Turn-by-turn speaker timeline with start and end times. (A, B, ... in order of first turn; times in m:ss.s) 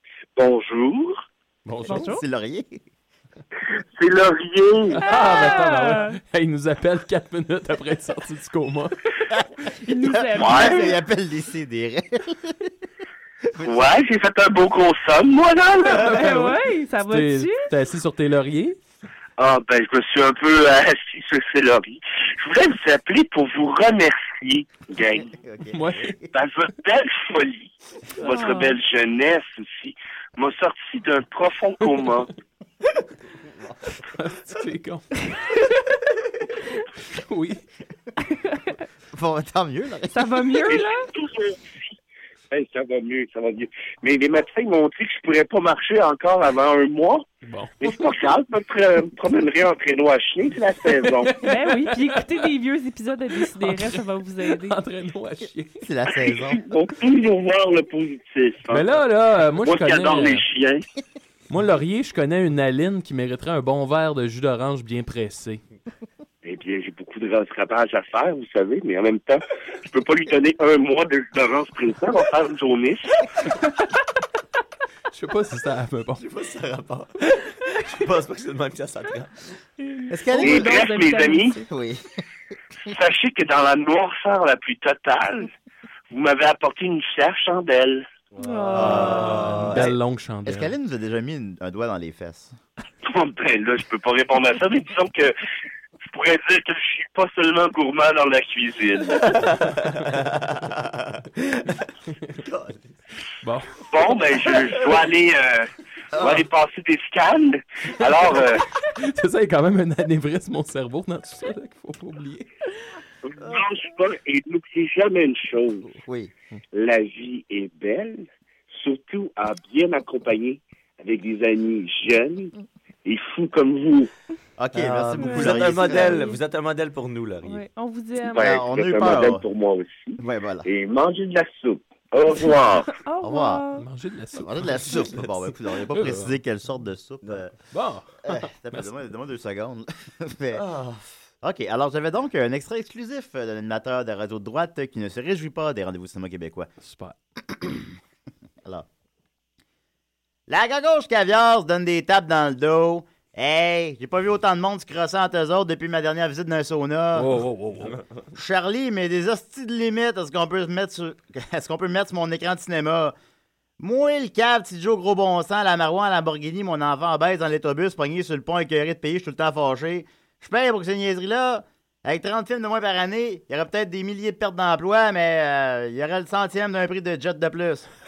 0:00.4-0:01.2 A
0:01.7-0:02.1 B
0:01.8-0:02.8 C
0:01.9-0:02.2 D
0:04.0-0:05.0 A
0:05.0-0:09.0 B
0:05.0-0:06.2 D
0:09.3-0:12.7 C
0:09.7-0:11.0 D
0:10.4-0:10.7 A
0:13.6-0:16.2 A
0:15.9-0:18.8 B
0:15.9-0:17.7 D
0:19.4-0:25.3 A
0:25.2-0:26.3 C
0:25.7-0:26.2 B
0:26.3-0:32.3 A
0:28.2-0:28.8 D
0:34.1-0:35.3 B
0:37.1-0:37.6 B
0:38.3-0:38.7 D
0:39.1-0:40.6 C
0:40.1-0:41.1 D
0:40.7-0:41.6 A
0:42.5-0:47.3 A
0:47.4-0:48.0 B
0:47.8-0:51.3 A
0:51.1-0:52.3 B
0:51.4-0:54.8 D
0:53.5-0:55.9 B
0:55.8-0:56.6 C
0:56.3-0:58.9 A
0:58.7-1:00.4 B
0:59.6-1:00.8 A
1:01.5-1:05.6 B
1:06.4-1:13.2 A
1:15.1-1:16.2 B
1:16.2-1:17.1 E
1:17.8-1:19.3 E
1:19.8-1:21.7 D
1:20.1-1:20.8 C
1:20.4-1:21.6 A
1:21.7-1:22.1 C
1:22.9-1:25.5 A
1:26.1-1:28.1 A
1:28.4-1:29.4 D
1:28.5-1:29.9 E
1:28.7-1:32.6 C
1:28.9-1:30.7 B
1:33.0-1:35.3 A
1:36.1-1:39.5 A
1:39.3-1:40.8 E
1:41.4-1:41.8 E
1:42.3-1:42.9 E
1:43.4-1:43.8 B
1:43.9-1:48.7 A
1:48.8-1:52.5 B
1:53.2-1:55.9 A
1:55.9-1:56.3 C
1:56.7-2:02.5 A
2:03.0-2:04.1 A
2:04.6-2:06.2 C
2:04.7-2:07.6 E
2:05.2-2:06.4 D
2:07.4-2:08.5 D
2:08.3-2:13.0 A
2:08.3-2:09.5 C
2:10.2-2:10.7 C
2:13.0-2:13.8 D
2:13.2-2:13.6 C
2:13.8-2:15.1 B
2:14.4-2:17.5 C
2:15.9-2:16.4 B
2:17.7-2:18.9 B
2:18.2-2:20.6 C
2:20.6-2:21.0 E
2:21.4-2:26.7 C
2:26.8-2:27.2 B
2:27.5-2:27.9 C
2:30.5-2:37.4 C
2:37.2-2:38.0 B
2:38.4-2:43.2 C
2:43.8-2:57.9 C